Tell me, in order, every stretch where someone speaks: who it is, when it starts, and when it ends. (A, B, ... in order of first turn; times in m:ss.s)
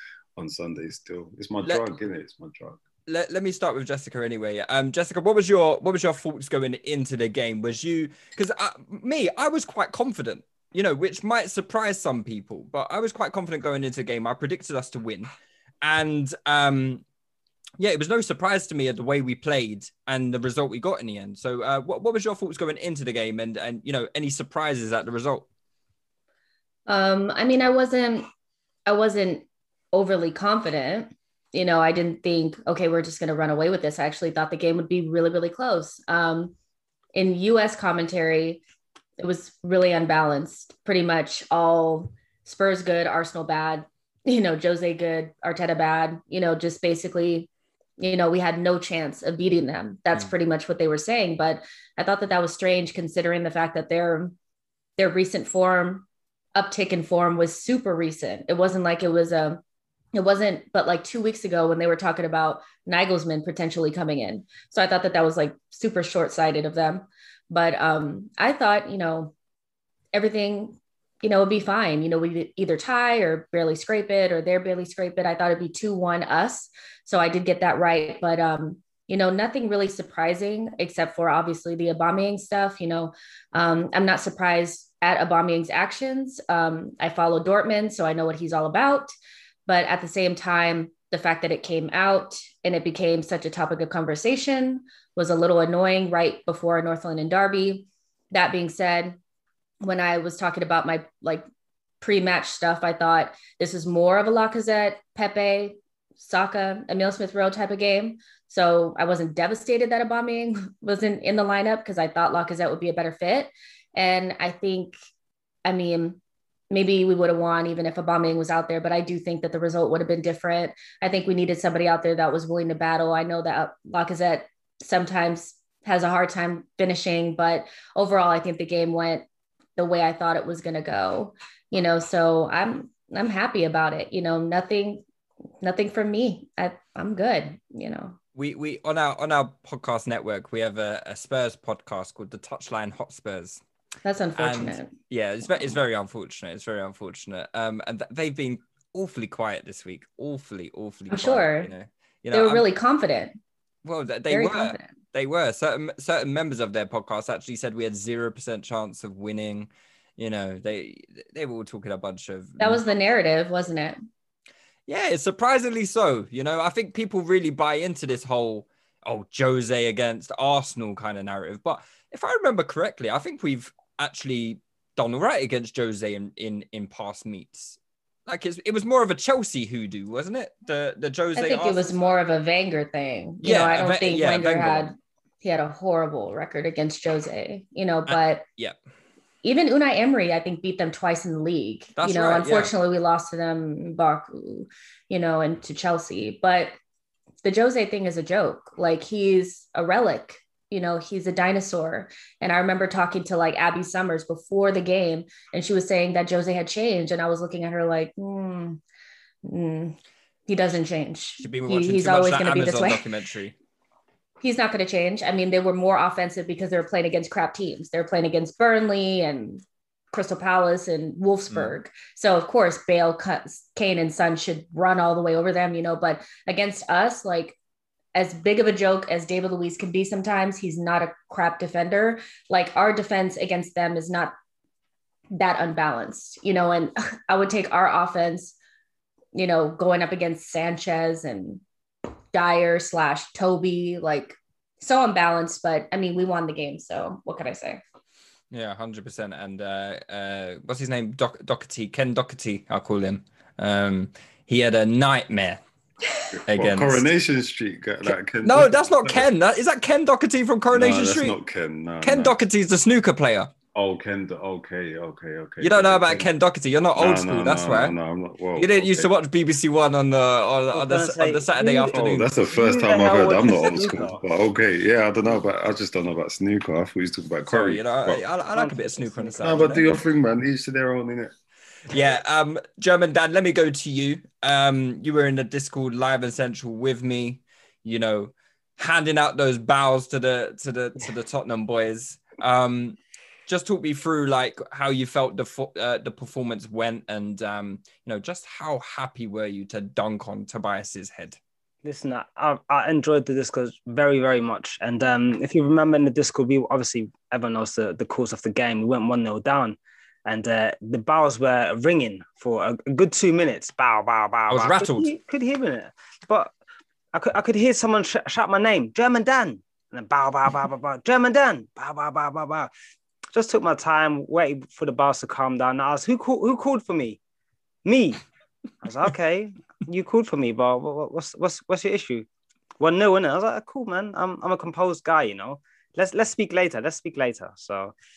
0:00.4-0:02.8 A
0:03.1-0:17.0 B
0:17.8-0:25.5 B
0:26.9-0:28.3 C
0:28.8-0:36.5 C
0:37.1-0:38.6 C
0:39.2-0:54.3 C
0:55.0-0:59.6 C
1:00.1-1:09.3 C
1:10.1-1:29.1 C
1:29.6-1:39.2 C
1:39.8-1:41.4 C
1:42.0-1:54.9 C
1:55.6-1:56.2 C
1:56.7-2:09.2 C
2:09.8-2:15.0 C
2:15.6-2:18.2 C
2:18.4-2:23.6 B
2:24.0-2:24.9 C
2:24.4-2:32.6 B
2:31.1-2:31.7 C
2:32.3-2:33.4 C
2:33.8-2:42.8 B
2:34.3-2:34.9 C
2:42.6-2:44.0 C
2:44.9-3:01.9 B
3:01.4-3:08.4 C
3:03.4-3:04.9 B
3:08.1-3:08.8 B
3:09.4-3:16.8 C
3:12.0-3:12.7 B
3:17.4-3:28.8 C
3:29.4-3:33.0 C
3:31.4-3:33.5 B
3:34.4-3:47.6 C
3:41.5-3:41.7 B
3:48.1-3:54.3 C
3:55.3-3:58.5 C
3:59.3-4:01.6 C
4:02.3-4:07.8 C
4:08.5-4:15.6 B
4:16.3-4:19.3 A
4:16.5-4:17.0 B
4:18.0-4:21.4 B
4:20.7-4:22.3 A
4:22.0-4:23.5 B
4:23.7-4:26.3 A
4:25.6-4:27.9 B
4:27.0-4:29.1 A
4:28.6-4:32.3 B
4:30.7-4:34.2 D
4:31.9-4:38.2 A
4:37.4-4:39.8 B
4:38.5-4:39.7 D
4:39.4-4:41.3 A
4:41.9-5:01.4 B
5:01.8-5:16.5 D
5:14.5-5:15.1 B
5:17.1-5:22.7 D
5:23.3-5:27.2 D
5:27.8-5:28.2 D
5:28.8-5:32.3 D
5:32.8-5:37.9 D